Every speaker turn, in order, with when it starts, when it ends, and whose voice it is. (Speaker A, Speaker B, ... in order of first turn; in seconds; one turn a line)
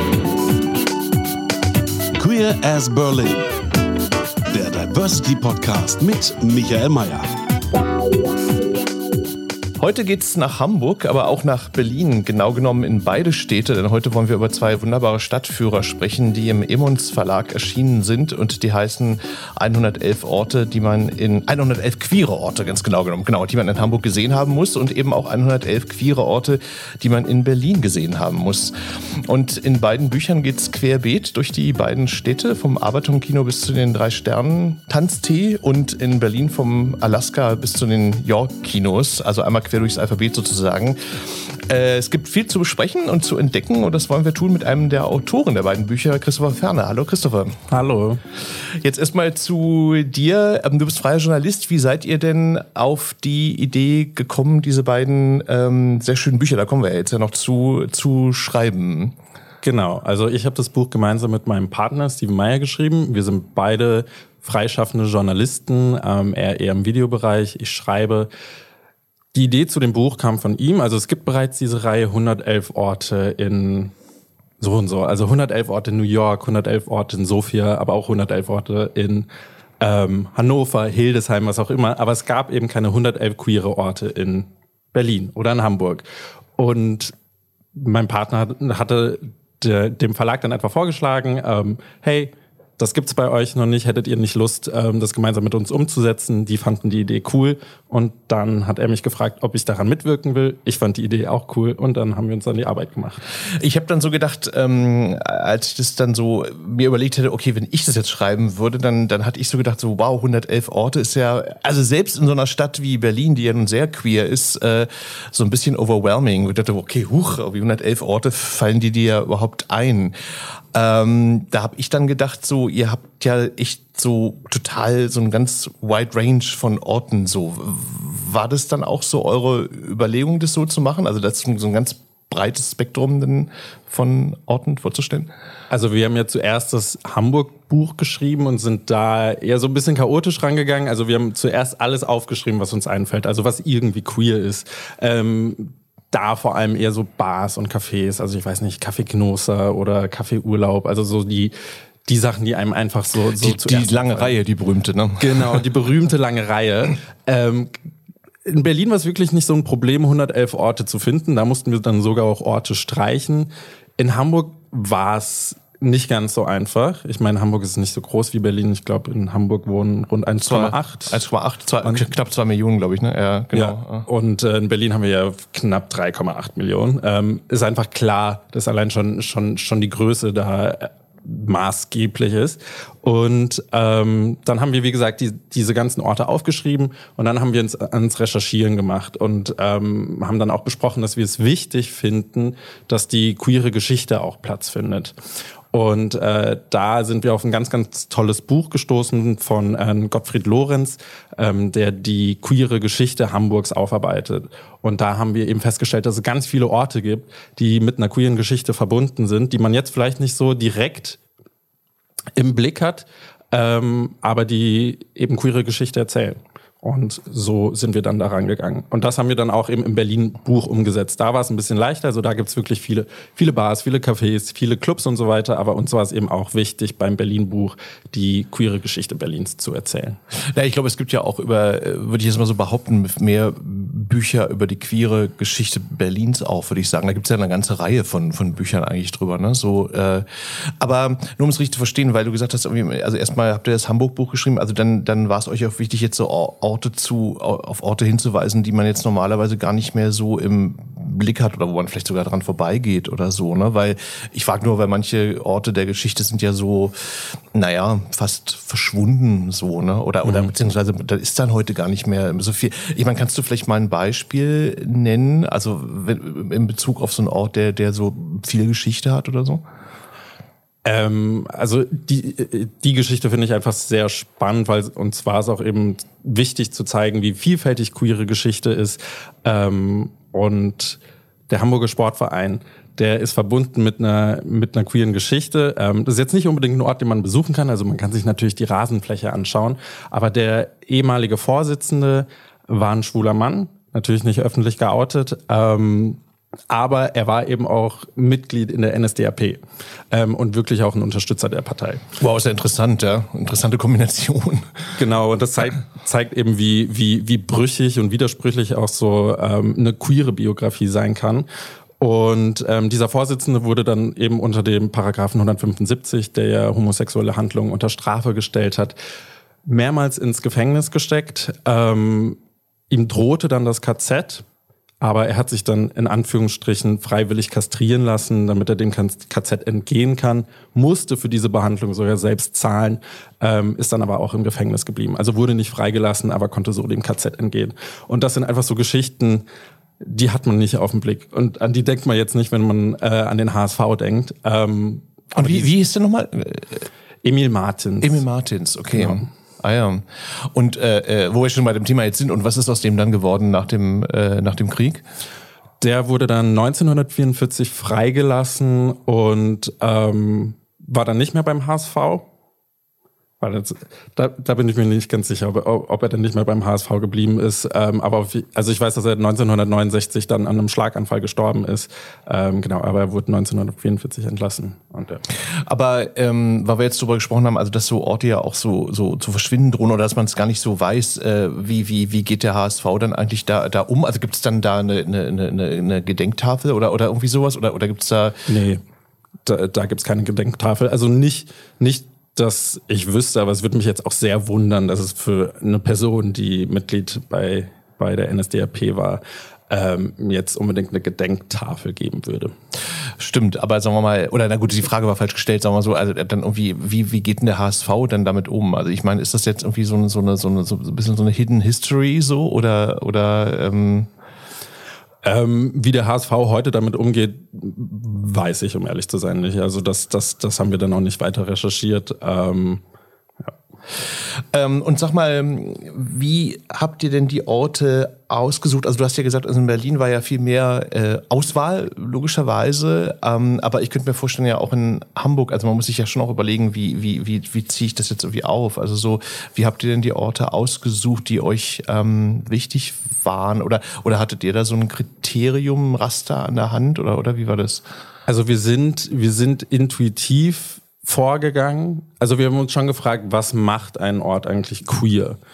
Speaker A: 2.1-3.5
Speaker A: 4.5-7.3
Speaker B: 9.8-47.6
Speaker C: 47.7-48.2
Speaker B: 48.6-59.1
Speaker C: 59.6-68.3
Speaker C: 69.3-73.9
Speaker C: 74.6-79.3
Speaker C: 79.8-86.0
Speaker C: 86.6-87.1
Speaker C: 87.7-103.2
Speaker B: 103.6-120.1
Speaker B: 120.7-135.3
Speaker C: 135.7-151.5
Speaker C: 152.1-154.3
Speaker B: 153.4-155.6
Speaker C: 155.2-157.7
Speaker C: 158.4-171.2
Speaker B: 170.4-174.1
Speaker C: 173.5-195.1
Speaker C: 195.7-211.2
Speaker C: 212.3-230.2
Speaker B: 230.3-256.9
Speaker B: 257.5-269.6
Speaker C: 260.2-260.5
Speaker C: 270.8-302.1
Speaker B: 302.2-304.9
Speaker C: 304.9-311.4
Speaker C: 312.0-318.9
Speaker C: 319.6-322.4
Speaker C: 322.9-324.4
Speaker C: 325.0-339.4
Speaker C: 340.0-345.7
Speaker B: 345.3-346.9
Speaker C: 347.2-348.2
Speaker B: 348.0-355.0
Speaker C: 348.9-349.3
Speaker C: 355.8-362.3
Speaker C: 363.4-375.2
Speaker B: 375.6-388.4
Speaker C: 388.5-388.8
Speaker C: 389.4-402.5
Speaker B: 403.2-414.1
Speaker C: 415.2-422.8
Speaker B: 424.5-447.8
Speaker C: 448.3-455.4